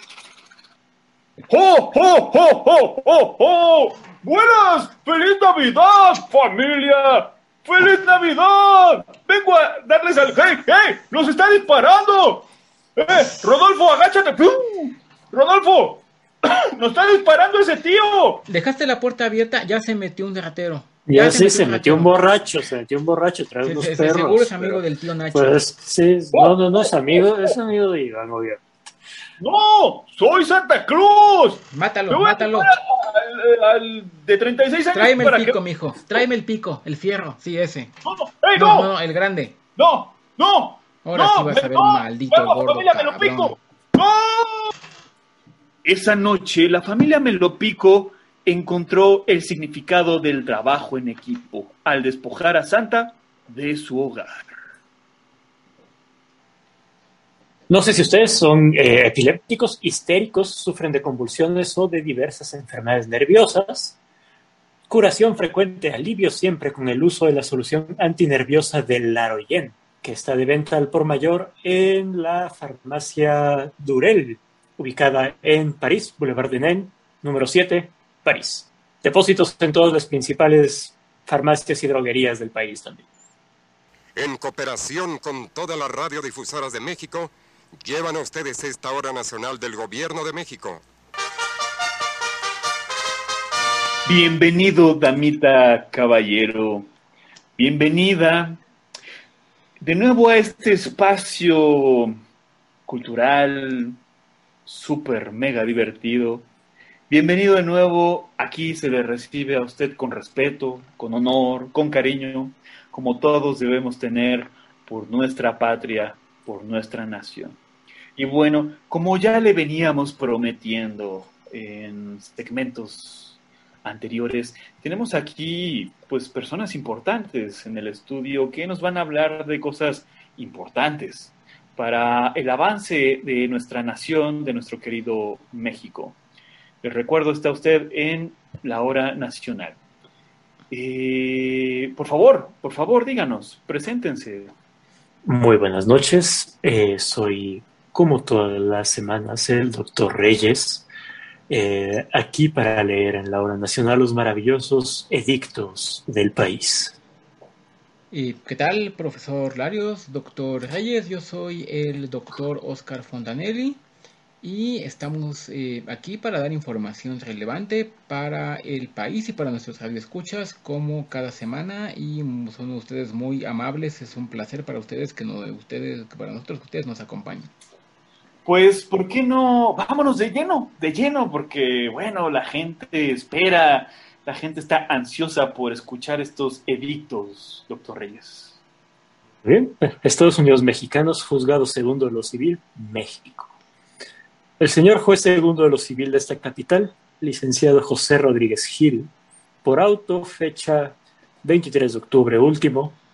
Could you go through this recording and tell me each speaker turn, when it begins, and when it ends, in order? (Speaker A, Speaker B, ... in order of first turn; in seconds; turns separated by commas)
Speaker A: 1.5-18.4, Speaker B: 18.5-22.1, Speaker C: 21.1-24.8, Speaker B: 23.6-25.6, Speaker C: 25.3-28.6, Speaker A: 26.3-27.5, Speaker A: 29.4-35.6, Speaker B: 31.7-32.8, Speaker B: 34.9-37.9, Speaker A: 38.0-38.9, Speaker B: 38.5-39.6, Speaker A: 39.8-44.7, Speaker B: 41.0-43.6, Speaker A: 45.8-54.4, Speaker C: 57.7-64.0, Speaker C: 64.9-83.1, Speaker D: 84.2-90.8, Speaker A: 94.0-96.9, Speaker A: 97.6-98.6, Speaker A: 99.8-102.2, Speaker A: 102.9-104.0, Speaker A: 104.7-106.5, Speaker A: 107.1-117.6, Speaker A: 118.2-136.2, Speaker A: 136.8-139.8, Speaker A: 140.7-144.5, Speaker C: 145.2-150.8, Speaker C: 151.5-157.0, Speaker B: 158.1-163.8, Speaker B: 164.4-177.5, Speaker A: 178.4-188.6, Speaker C: 189.4-193.5, Speaker C: 194.6-199.1, Speaker C: 199.6-202.9